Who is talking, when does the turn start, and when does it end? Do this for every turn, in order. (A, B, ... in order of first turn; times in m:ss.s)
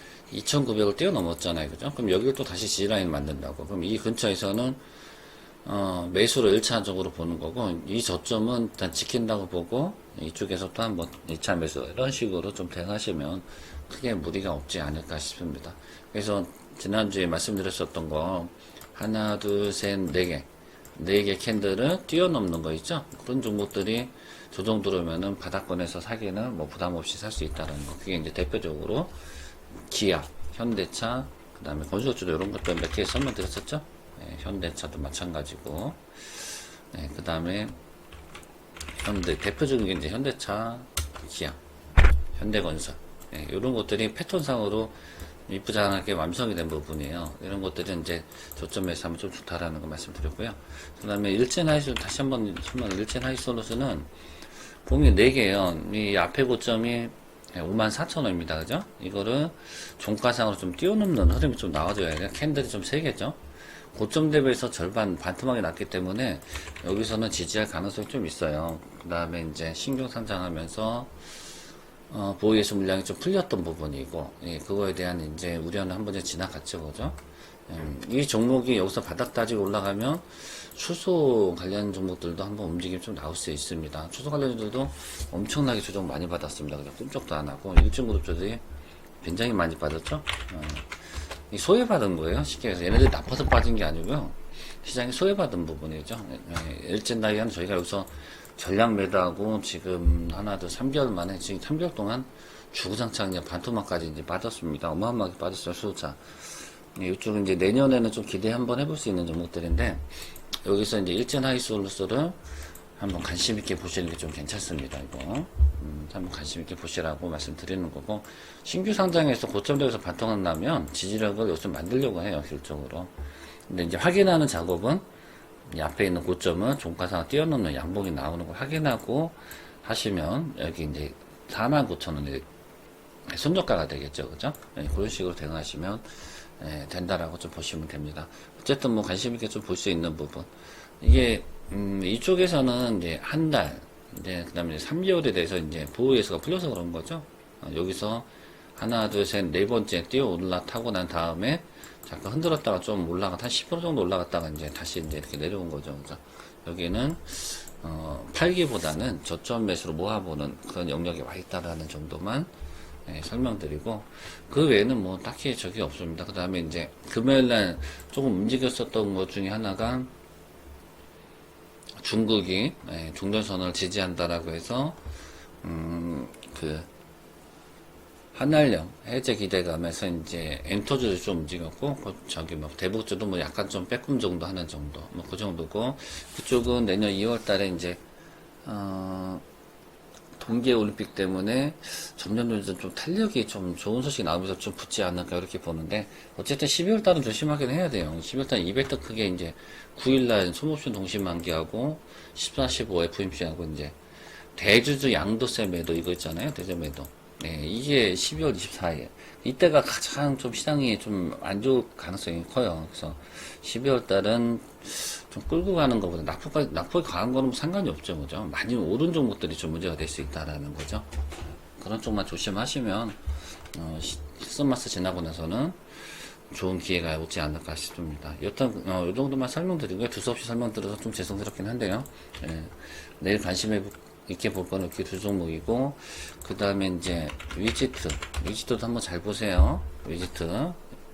0:00.3-0:04.8 A
0:05.6-0:29.1 A
0:29.9-0:37.8 A
0:39.0-0:41.6 A
0:42.4-0:45.0 A
0:45.5-0:54.1 A
0:54.9-1:03.4 A
1:03.9-1:11.3 A
1:12.1-1:28.6 A
1:29.2-1:52.4 A
1:53.0-2:03.1 A
2:03.7-2:05.0 A
2:05.7-2:12.4 A
2:13.3-2:20.5 A
2:21.0-2:42.5 A
2:43.1-2:50.1 A
2:52.0-2:55.0 A
2:55.6-2:56.9 A
2:58.3-3:08.0 A
3:08.6-3:09.4 A
3:10.4-3:24.0 A
3:24.6-3:41.1 A
3:41.8-3:43.2 A
3:43.7-4:00.8 A